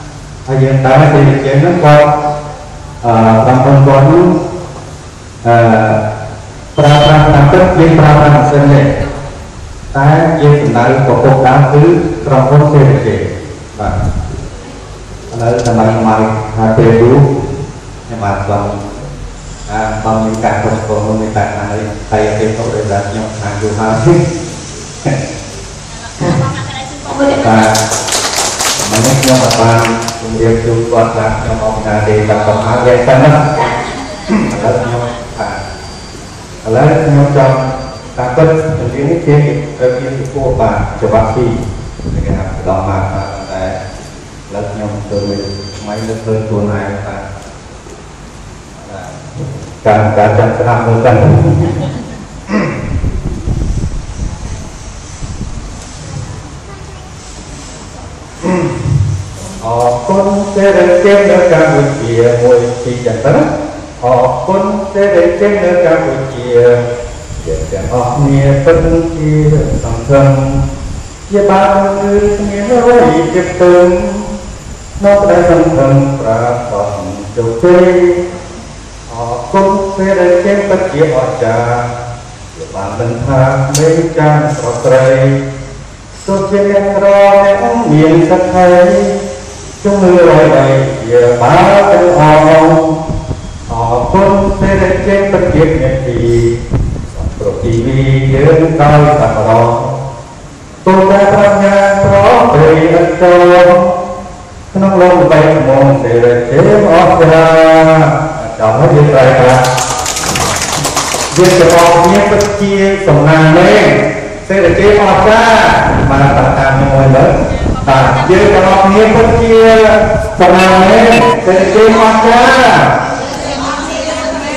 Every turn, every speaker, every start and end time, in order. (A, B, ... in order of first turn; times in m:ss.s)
0:00.5-0:02.1 A
0:03.0-0:04.3 A
0:05.4-0:06.0 A
0:06.8-0:08.9 A
0:09.9-0:14.0 A
0:15.3-0:17.2 A
0:18.1-0:18.8 A
0:19.7-0:24.2 A
0:27.3-0:27.8 A
0:28.8-0:33.7 A
0:34.3-0:35.6 A
0:36.6-0:41.6 A
0:42.1-0:43.8 A
0:44.5-0:47.2 A
0:48.9-0:49.2 A
0:49.8-0:51.8 A
0:58.4-0:58.8 A
0:59.6-1:03.4 A
1:04.0-1:06.8 A
1:07.4-1:10.6 A
1:11.3-1:14.3 A
1:15.0-1:18.2 A
1:19.1-1:21.9 A
1:22.5-1:25.4 A
1:26.2-1:29.1 A
1:29.8-1:32.9 A
1:33.7-1:36.6 A
1:37.1-1:39.9 A
1:40.8-1:43.9 A
1:44.7-1:49.6 A
1:51.3-1:57.3 A
1:57.8-2:03.0 A